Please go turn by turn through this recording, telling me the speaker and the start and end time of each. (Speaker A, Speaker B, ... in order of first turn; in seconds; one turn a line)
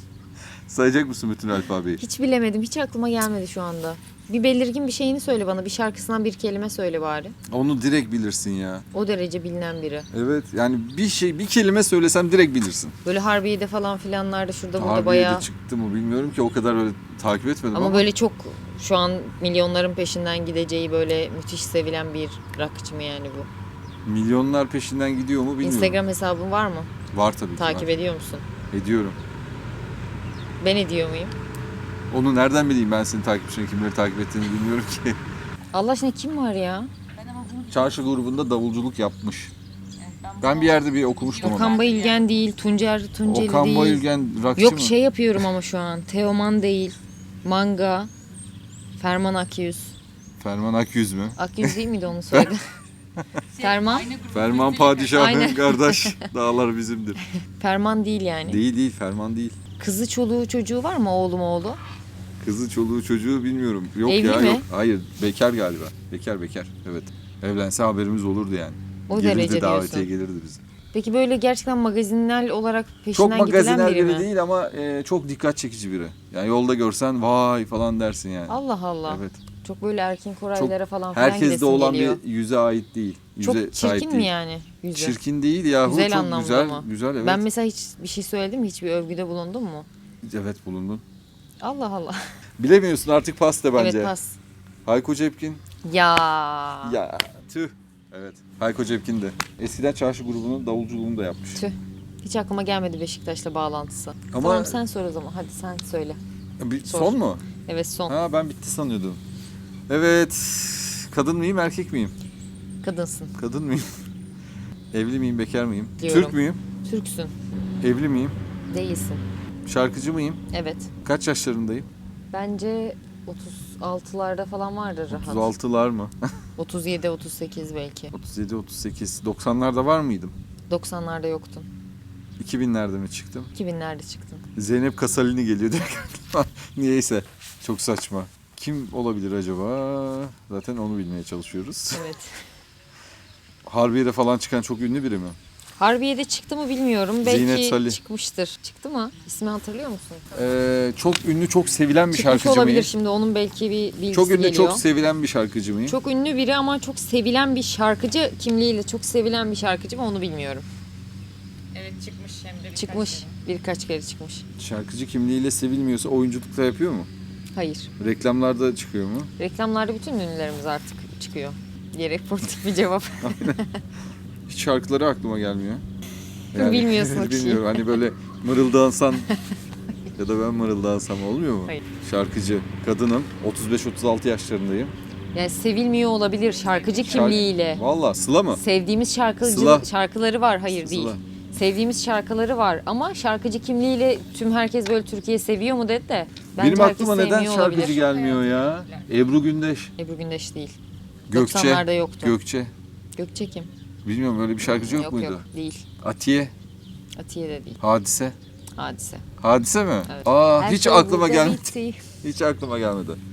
Speaker A: 0.7-2.0
Speaker B: 2.0-7.3
Speaker A: 7.5-8.8
Speaker B: 8.9-10.1
Speaker A: 10.1-12.9
Speaker B: 13.0-15.5
Speaker A: 14.8-18.1
Speaker B: 17.7-23.5
Speaker A: 24.1-26.0
Speaker B: 25.6-26.9
Speaker A: 27.1-27.9
Speaker B: 27.6-28.4
Speaker A: 28.7-29.2
Speaker B: 30.6-31.3
Speaker A: 32.1-35.2
Speaker B: 35.7-36.9
Speaker C: 37.2-37.9
Speaker A: 37.7-39.5
Speaker C: 40.0-42.3
Speaker A: 40.4-41.8
Speaker B: 41.4-48.1
Speaker A: 43.2-45.0
Speaker B: 49.0-50.0
Speaker A: 50.4-51.8
Speaker B: 51.4-52.6
Speaker C: 53.5-55.2
Speaker B: 53.6-54.1
Speaker A: 54.3-57.2
Speaker B: 55.1-56.2
Speaker B: 57.4-58.6
Speaker A: 58.5-59.6
Speaker B: 59.8-61.8
Speaker A: 62.4-70.6
Speaker B: 64.1-64.7
Speaker B: 69.1-70.1
Speaker B: 70.9-74.3
Speaker A: 73.1-79.4
Speaker B: 78.5-82.2
Speaker A: 80.5-84.3
Speaker B: 83.4-85.2
Speaker A: 85.0-87.4
Speaker B: 85.8-89.9
Speaker A: 90.2-91.0
Speaker B: 91.6-92.2
Speaker A: 92.6-94.1
Speaker B: 93.8-94.4
Speaker A: 94.8-95.6
Speaker B: 95.8-97.0
Speaker A: 96.8-101.6
Speaker B: 101.5-106.2
Speaker A: 104.3-104.8
Speaker A: 106.6-107.4
Speaker B: 106.8-108.1
Speaker A: 108.1-109.2
Speaker A: 109.9-112.1
Speaker B: 112.8-113.3
Speaker A: 113.3-113.9
Speaker A: 114.9-116.6
Speaker B: 116.0-117.3
Speaker A: 117.8-118.4
Speaker B: 118.7-119.2
Speaker A: 119.7-120.4
Speaker B: 120.5-120.9
Speaker A: 121.0-121.9
Speaker B: 122.3-125.5
Speaker A: 125.1-126.1
Speaker B: 126.6-128.1
Speaker A: 128.1-130.3
Speaker B: 130.7-131.7
Speaker A: 132.4-133.5
Speaker B: 133.5-134.4
Speaker A: 134.5-142.0
Speaker B: 141.9-142.4
Speaker A: 143.7-145.4
Speaker B: 145.8-150.3
Speaker A: 147.2-148.0
Speaker A: 150.3-152.9
Speaker B: 152.1-154.8
Speaker A: 154.1-156.0
Speaker B: 155.8-160.7
Speaker C: 161.7-163.3
Speaker B: 162.8-164.4
Speaker A: 164.6-167.1
Speaker B: 167.5-167.9
Speaker A: 168.0-169.3
Speaker B: 169.4-173.8
Speaker A: 173.2-173.6
Speaker A: 174.5-175.8
Speaker B: 176.5-177.8
Speaker A: 176.5-179.3
Speaker A: 180.2-184.9
Speaker B: 185.3-187.8
Speaker A: 187.0-188.6
Speaker B: 188.5-198.2
Speaker A: 189.4-189.8
Speaker A: 190.7-191.2
Speaker A: 196.6-199.9
Speaker C: 198.2-198.5
Speaker B: 200.0-200.8
Speaker A: 201.3-202.7
Speaker B: 201.3-202.4
Speaker B: 203.2-203.7
Speaker A: 204.0-205.4
Speaker B: 204.8-205.9
Speaker A: 206.0-206.5
Speaker B: 207.2-207.8
Speaker A: 207.8-208.3
Speaker B: 208.8-209.2
Speaker A: 209.4-213.2
Speaker B: 210.1-212.0